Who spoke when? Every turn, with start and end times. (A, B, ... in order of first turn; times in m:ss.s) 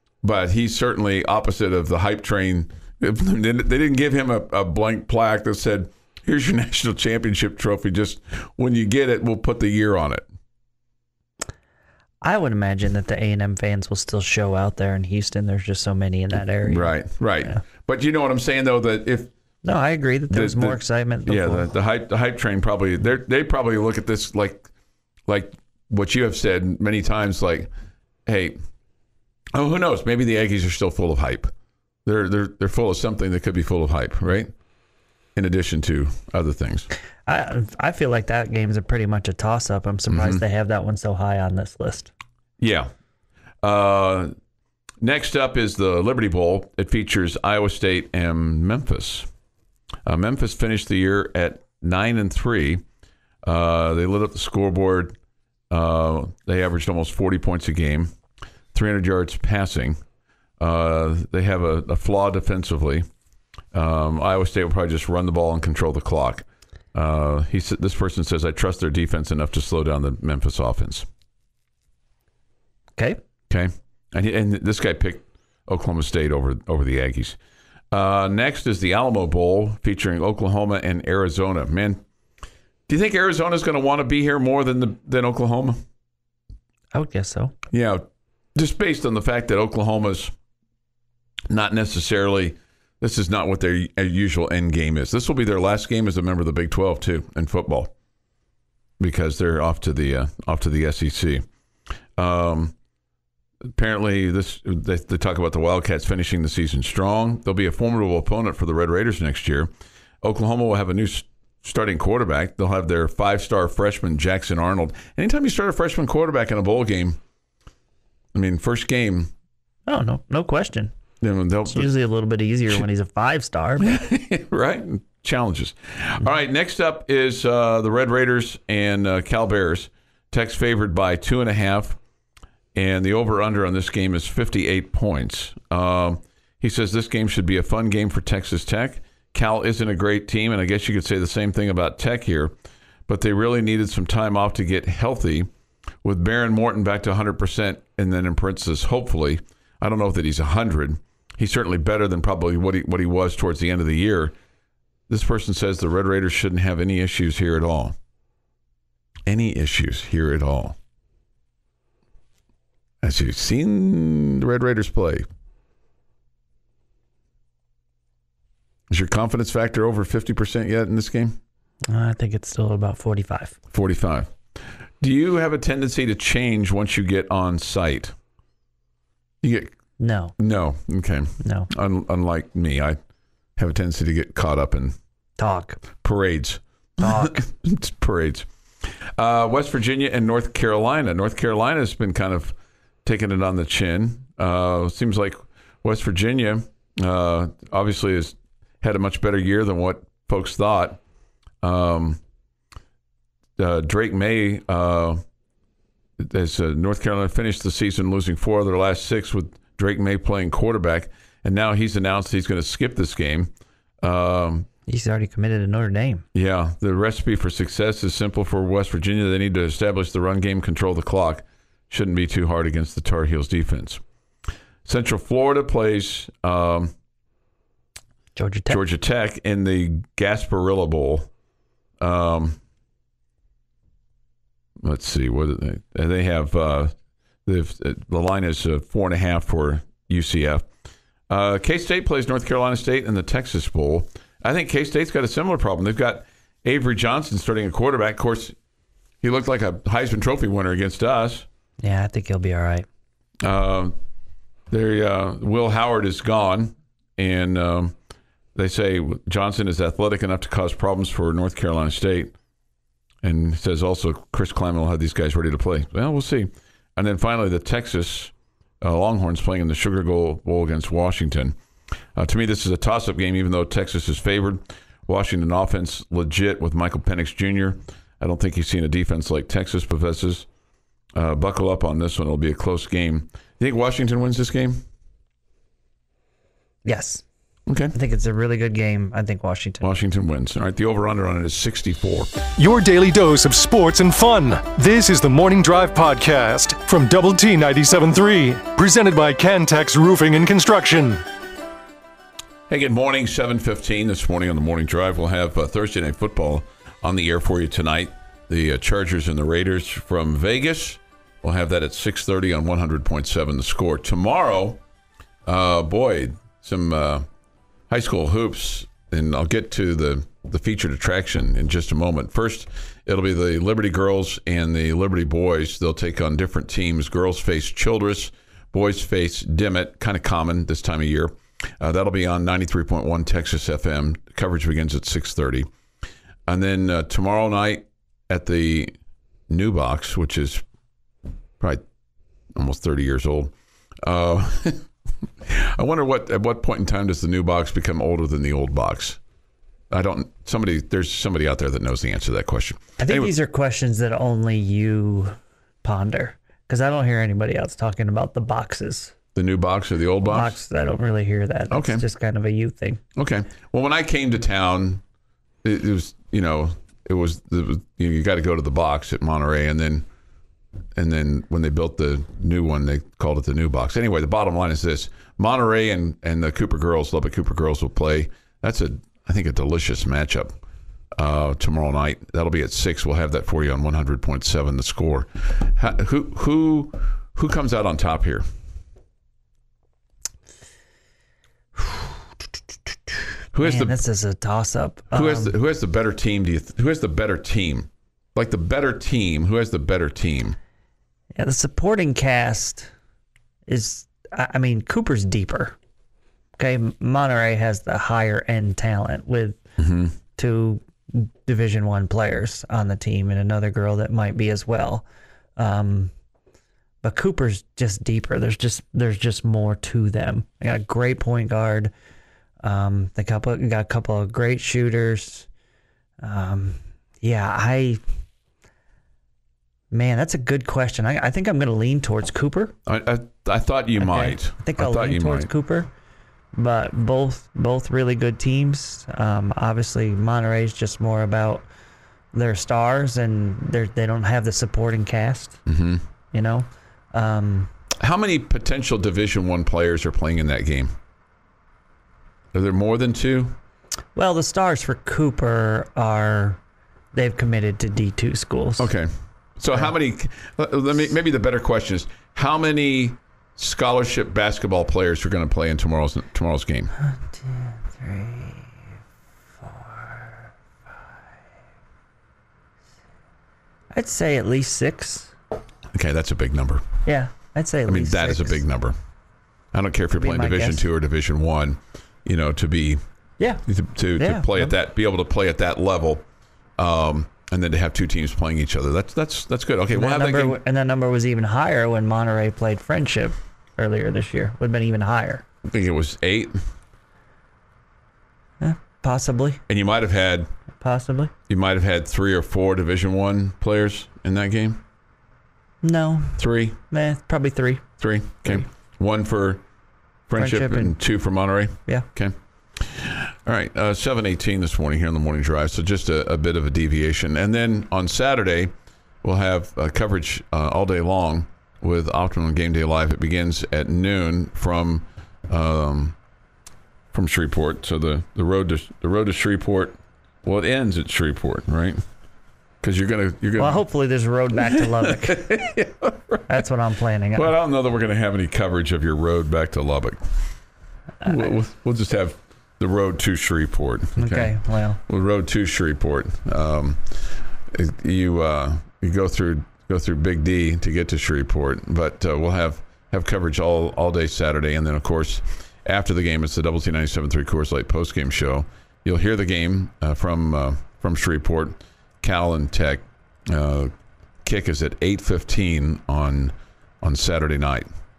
0:00.2-0:10.2 A
0:12.2-0:16.9 B
0:16.6-0:19.3 A
0:19.6-0:21.7 B
0:20.3-0:24.7 A
0:25.3-0:27.7 A
0:28.2-0:28.6 A
0:29.5-0:31.5 A
0:32.0-0:34.5 A
0:35.4-0:36.9 A
0:37.3-0:42.1 B
0:40.1-0:40.4 A
0:42.6-0:42.9 A
0:43.6-0:44.3 A
0:45.0-0:49.3 A
0:50.0-0:52.8 A
0:53.4-0:55.2 A
0:55.7-0:58.1 A
0:58.7-1:00.0 A
1:00.6-1:03.0 A
1:03.7-1:11.1 A
1:13.5-1:17.4 A
1:17.9-1:22.0 A
1:22.9-1:25.8 A
1:26.9-1:27.5 B
1:27.7-1:30.3 A
1:31.5-1:37.9 A
1:39.0-1:41.4 A
1:42.2-1:42.7 A
1:43.7-1:49.7 A
1:50.2-1:57.2 A
1:58.3-1:59.3 A
1:59.9-2:00.9 B
2:01.2-2:01.9 A
2:01.7-2:04.0 B
2:03.8-2:12.0 A
2:12.7-2:22.5 A
2:23.1-2:25.5 A
2:26.0-2:34.3 A
2:35.1-2:38.0 A
2:39.2-2:40.8 A
2:43.0-2:45.2 A
2:48.9-2:51.4 A
2:51.9-2:53.6 B
2:53.7-2:54.3 A
2:55.0-2:58.1 A
2:59.4-2:59.7 A
3:00.0-3:00.3 B
3:00.4-3:03.0 A
3:01.4-3:01.7 B
3:03.6-3:05.0 A
3:05.4-3:05.8 B
3:06.0-3:08.5 A
3:07.0-3:07.4 B
3:09.2-3:21.0 A
3:21.6-3:22.2 A
3:23.6-3:25.2 A
3:26.2-3:34.7 A
3:34.9-3:36.2 B
3:36.3-3:44.0 A
3:44.8-3:46.9 A
3:48.4-3:48.8 B
3:48.7-3:51.3 A
3:52.0-3:52.6 A
3:54.8-3:56.9 A
3:57.4-4:00.7 A
4:01.3-4:08.5 A
4:09.2-4:11.4 A
4:11.8-4:12.8 B
4:13.4-4:13.9 A
4:14.7-4:17.9 A
4:18.5-4:22.3 A
4:23.2-4:31.5 A
4:32.2-4:40.5 A
4:41.1-4:44.8 A
4:46.8-4:47.2 B
4:47.7-4:47.9 A
4:47.9-4:49.9 B
4:49.8-4:52.4 A
4:52.6-5:01.2 C
5:02.7-5:14.8 A
5:15.4-5:17.2 A
5:17.9-5:35.7 A
5:36.5-5:38.9 A
5:39.5-5:40.6 A
5:42.6-5:44.9 A
5:45.4-5:49.2 A
5:49.9-5:53.3 A
5:53.0-5:59.1 B
5:59.3-6:00.6 A
6:00.3-6:03.0 B
6:01.7-6:02.0 A
6:03.2-6:05.0 A
6:05.6-6:10.0 A
6:10.9-6:20.6 A
6:21.1-6:28.4 A
6:33.5-6:34.0 A
6:33.6-6:35.5 B
6:35.1-6:40.6 A
6:41.4-6:42.9 B
6:43.7-6:45.8 B
6:46.6-6:49.6 B
6:49.8-6:50.1 A
6:50.4-6:55.0 B
6:55.6-6:56.1 B
6:57.0-7:01.9 B
7:02.6-7:05.5 B
7:06.2-7:08.0 B
7:09.9-7:12.7 B
7:12.8-7:15.5 A
7:14.0-7:15.9 B
7:16.5-7:21.7 B
7:22.3-7:25.6 B
7:25.7-7:26.0 A
7:26.3-7:27.7 B
7:28.0-7:30.9 A
7:32.5-7:33.6 A
7:34.2-7:36.6 B
7:37.1-7:38.9 B
7:38.8-7:46.9 A
7:47.0-7:48.8 B
7:49.6-7:50.4 B
7:53.9-7:55.3 B
7:55.9-7:56.8 A
7:57.0-7:58.6 B
7:57.8-7:58.9 A
7:59.7-8:03.0 A
8:00.2-8:00.8 B
8:03.4-8:03.6 B
8:03.6-8:06.2 A
8:04.2-8:04.7 B
8:06.8-8:10.6 A
8:09.9-8:15.4 B
8:15.6-8:16.6 A
8:18.6-8:19.6 B
8:19.7-8:20.5 A
8:20.8-8:21.3 B
8:21.5-8:24.8 A
8:25.8-8:26.4 B
8:26.4-8:26.8 A
8:26.9-8:27.8 B
8:28.0-8:29.6 A
8:30.3-8:46.2 A
8:30.4-8:31.0 B
8:47.1-8:52.0 A
8:52.8-8:53.8 A
8:53.6-8:55.6 B
8:54.5-8:56.6 A
8:56.5-8:57.5 B
8:57.3-9:00.2 A
9:01.2-9:23.9 A
9:04.2-9:05.0 B
9:24.4-9:27.9 A